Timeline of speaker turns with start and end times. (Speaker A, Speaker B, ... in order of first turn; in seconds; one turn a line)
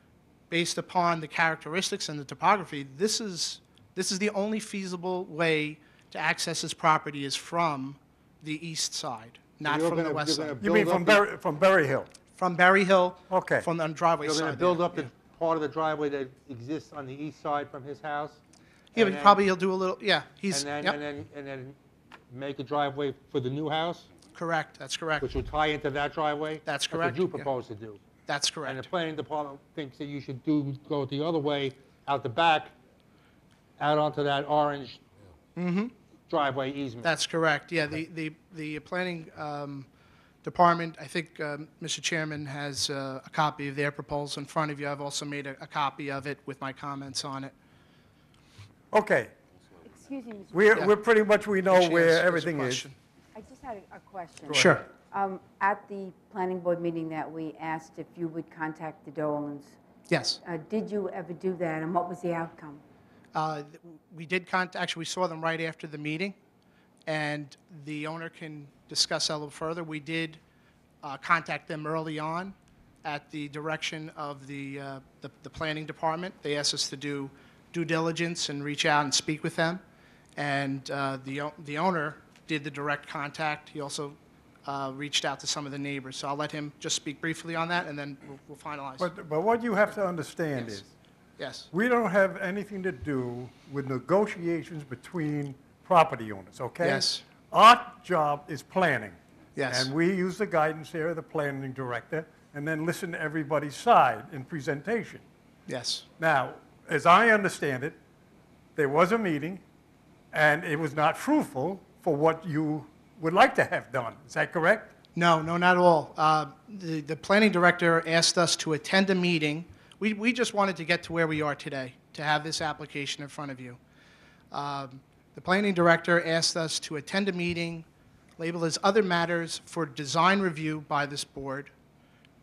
Speaker A: 0.5-10.6
Speaker B: 9.6-11.2
Speaker C: 10.6-12.1
Speaker A: 12.4-15.1
Speaker C: 13.3-13.7
Speaker B: 14.2-18.4
Speaker A: 18.9-21.0
Speaker B: 18.9-19.4
Speaker B: 20.5-21.8
Speaker B: 22.3-24.1
Speaker A: 24.3-25.3
Speaker B: 25.2-28.0
Speaker A: 26.6-27.5
Speaker A: 28.3-28.9
Speaker B: 28.6-32.7
Speaker B: 33.8-35.0
Speaker A: 35.5-35.9
Speaker B: 36.3-37.1
Speaker A: 37.0-39.9
Speaker A: 40.4-47.5
Speaker C: 48.9-49.3
Speaker D: 49.8-50.9
Speaker C: 50.5-52.9
Speaker A: 51.7-53.0
Speaker D: 53.3-59.8
Speaker C: 54.5-54.8
Speaker A: 54.5-54.8
Speaker A: 60.1-60.4
Speaker D: 60.4-62.8
Speaker A: 63.3-66.3
Speaker A: 67.1-70.4
Speaker A: 71.0-79.8
Speaker A: 80.4-89.1
Speaker C: 89.0-90.8
Speaker A: 91.4-91.7
Speaker C: 91.7-99.2
Speaker A: 96.8-97.2
Speaker A: 99.5-99.9
Speaker C: 99.7-105.2
Speaker A: 105.7-106.0
Speaker C: 106.2-108.0
Speaker C: 108.8-109.6
Speaker C: 110.3-114.9
Speaker A: 115.2-123.8
Speaker A: 124.5-127.8
Speaker A: 128.4-131.7